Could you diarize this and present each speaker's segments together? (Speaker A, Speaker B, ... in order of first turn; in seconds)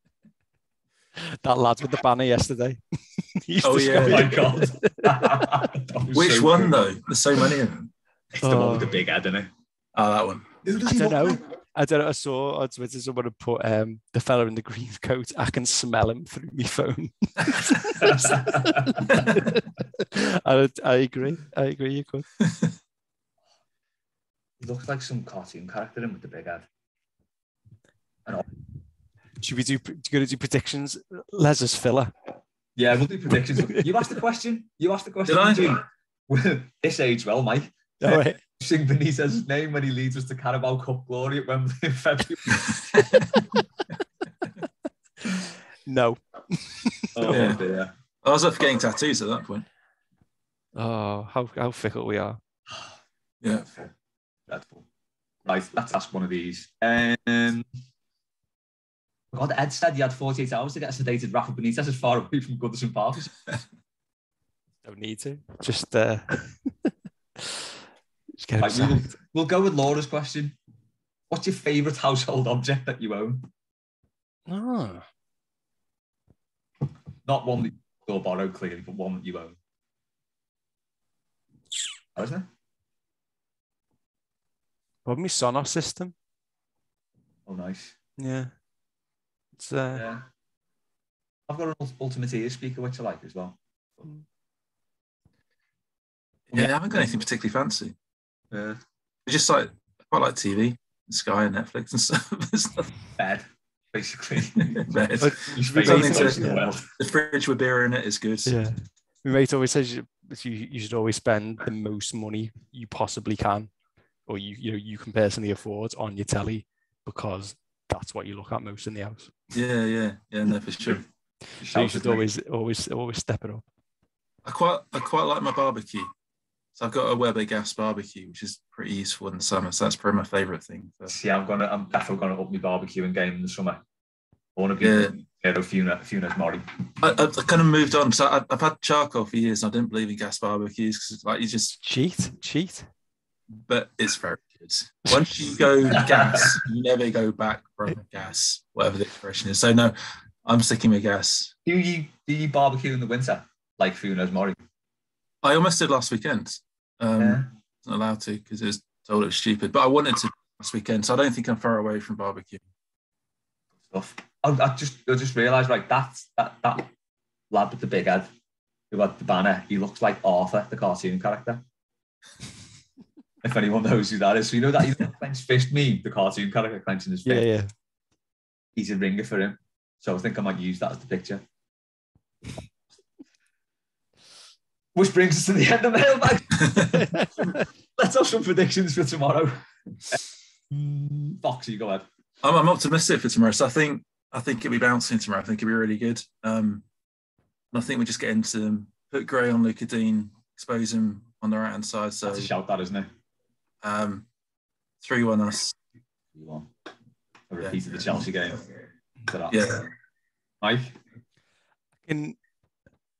Speaker A: 1.2-5.6, 8.4-9.0, 10.8-22.3, 29.4-32.1, 33.6-33.9, 38.0-38.4, 45.2-47.6, 50.8-52.4, 64.8-67.7, 68.4-69.1, 74.5-75.0, 85.1-86.1, 88.2-88.5, 89.6-90.0, 105.2-106.7, 108.5-113.7, 114.3-119.4, 121.7-123.7, 141.8-142.9, 177.3-177.7, 187.1-187.6, 212.1-212.4
Speaker B: 3.6-4.4, 6.1-7.9, 9.9-10.6, 19.1-19.4, 35.3-35.8, 42.5-43.4, 47.3-47.6, 48.2-49.6, 96.5-98.0, 99.3-102.9, 104.8-108.5, 119.5-121.0, 124.4-126.1, 126.8-131.1, 134.8-135.1, 137.0-141.7, 143.7-151.5, 155.4-162.6, 186.6-186.9, 192.4-196.8, 197.7-202.5, 203.8-204.3, 205.0-205.8, 209.5-209.9
Speaker C: 3.9-7.0, 8.3-9.5, 10.6-11.4, 18.0-19.3, 24.6-26.7, 32.8-42.8, 47.1-47.9, 53.6-53.9, 54.5-54.9, 55.5-57.7, 59.3-63.4, 68.6-70.6, 71.3-73.5, 77.2-79.6, 82.2-82.5, 87.5-88.0, 89.9-90.2, 91.5-94.1, 98.5-98.8, 103.2-106.9, 121.6-122.3, 131.1-133.8, 134.6-136.8, 145.9-146.5, 151.7-154.6, 157.1-157.5, 163.9-166.9, 167.5-168.3, 168.9-171.6, 173.4-177.5, 178.8-181.4, 184.9-192.1, 202.2-203.1, 206.3-206.7, 207.5-208.6, 209.3-209.8, 210.6-211.0